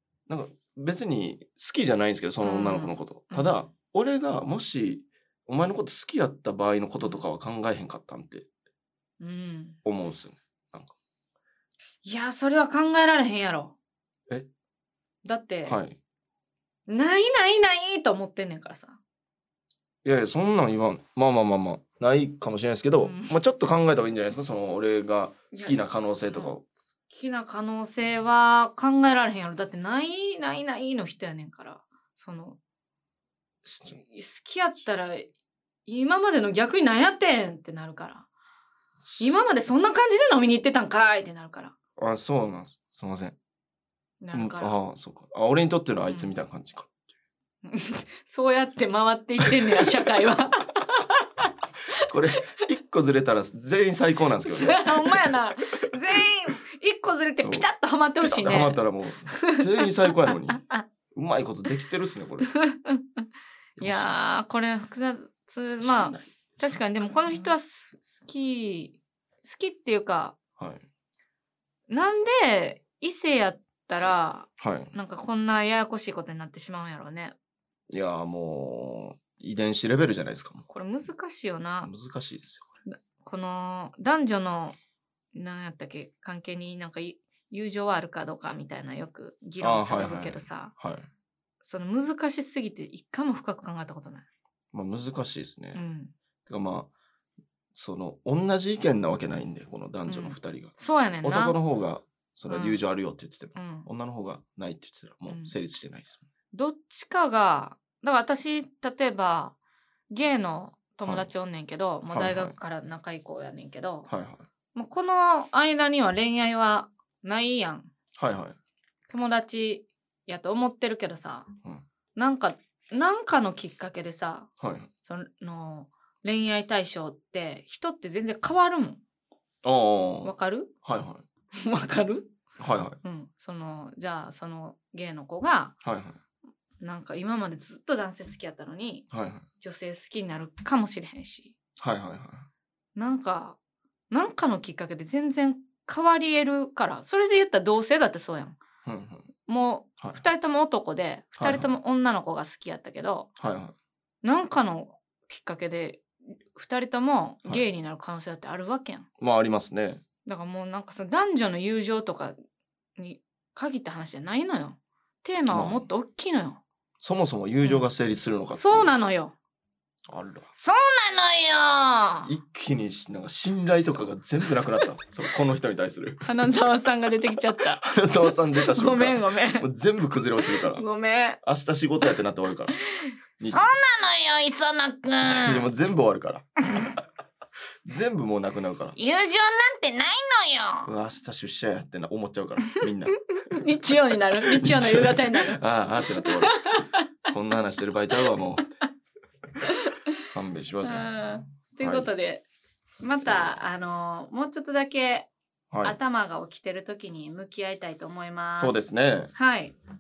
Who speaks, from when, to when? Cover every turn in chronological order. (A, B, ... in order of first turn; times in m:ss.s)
0:00.3-0:08.5 A
0:02.4-0:03.6 B
0:09.2-0:09.8 B
0:09.8-0:10.9 A
0:12.0-0:13.8 B
0:15.2-0:15.8 B
0:15.6-0:16.0 A
0:16.9-0:19.0 B
0:20.0-0:26.6 A
0:23.0-0:23.4 B
0:25.5-0:32.6 B
0:33.7-0:35.3 B
0:35.9-0:38.3 B
0:39.0-0:39.4 A
0:39.2-0:41.7 B
0:42.0-0:43.4 A
0:44.2-0:44.8 B
0:44.3-0:47.0 A
0:46.1-0:46.4 B
0:47.6-0:52.0 B
0:52.0-0:55.4 A
0:54.4-1:00.8 B
0:58.2-1:00.6 A
1:01.1-1:02.5 A
1:02.4-1:03.3 B
1:03.8-1:04.1 A
1:03.8-1:10.4 B
1:05.8-1:07.5 A
1:10.6-1:10.8 A
1:11.9-1:17.4 B
1:14.6-1:14.9 A
1:17.9-1:20.6 A
1:20.7-1:21.9 B
1:21.8-1:22.8 A
1:22.9-1:24.8 B
1:25.4-1:30.7 B
1:29.6-1:31.1 A
1:31.6-1:34.2 B
1:34.7-1:35.8 A
1:35.7-1:36.1 B
1:36.5-1:36.9 A
1:37.8-1:46.2 A
1:40.1-1:41.6 B
1:42.5-1:42.8 B
1:43.6-1:43.9 B
1:45.3-1:45.5 B
1:46.5-1:49.6 B
1:50.1-1:54.1 B
1:52.1-1:52.5 A
1:54.1-1:54.4 A
1:54.7-1:57.9 B
1:58.2-1:58.6 A
1:59.1-2:01.5 B
2:02.2-2:04.5 B
2:04.6-2:04.9 A
2:05.0-2:09.0 B
2:09.6-2:11.2 A
2:10.2-2:10.7 B
2:11.5-2:12.3 B
2:12.6-2:13.0 A
2:13.0-2:15.7 B
2:15.8-2:16.2 A
2:16.8-2:19.1 B
2:19.1-2:19.4 A
2:19.6-2:21.5 B
2:21.8-2:22.5 A
2:23.0-2:23.6 B
2:24.1-2:28.6 B
2:28.8-2:29.3 A
2:29.4-2:33.3 B
2:31.4-2:31.7 A
2:33.4-2:33.8 A
2:34.2-2:39.1 B
2:39.2-2:40.0 A
2:40.2-2:42.4 B
2:43.0-2:46.6 B
2:45.5-2:45.8 A
2:47.0-2:48.9 A
2:48.5-2:49.4 B
2:50.1-2:50.5 A
2:50.5-2:52.3 B
2:52.3-2:56.3 A
2:56.2-2:59.7 B
2:57.8-3:00.8 A
3:00.4-3:01.4 B
3:01.4-3:02.8 A
3:03.4-3:03.8 A
3:03.4-3:05.6 B
3:05.2-3:06.5 A
3:07.8-3:09.0 A
3:09.0-3:10.9 B
3:10.9-3:13.6 A
3:12.7-3:15.6 B
3:14.4-3:16.6 A
3:16.2-3:17.1 B
3:17.3-3:18.8 A
3:19.6-3:20.2 B
3:20.3-3:22.1 A
3:20.8-3:22.4 B
3:23.0-3:25.3 B
3:23.2-3:23.6 A
3:25.7-3:26.0 A
3:25.8-3:28.8 B
3:28.6-3:29.3 A
3:29.4-3:29.8 B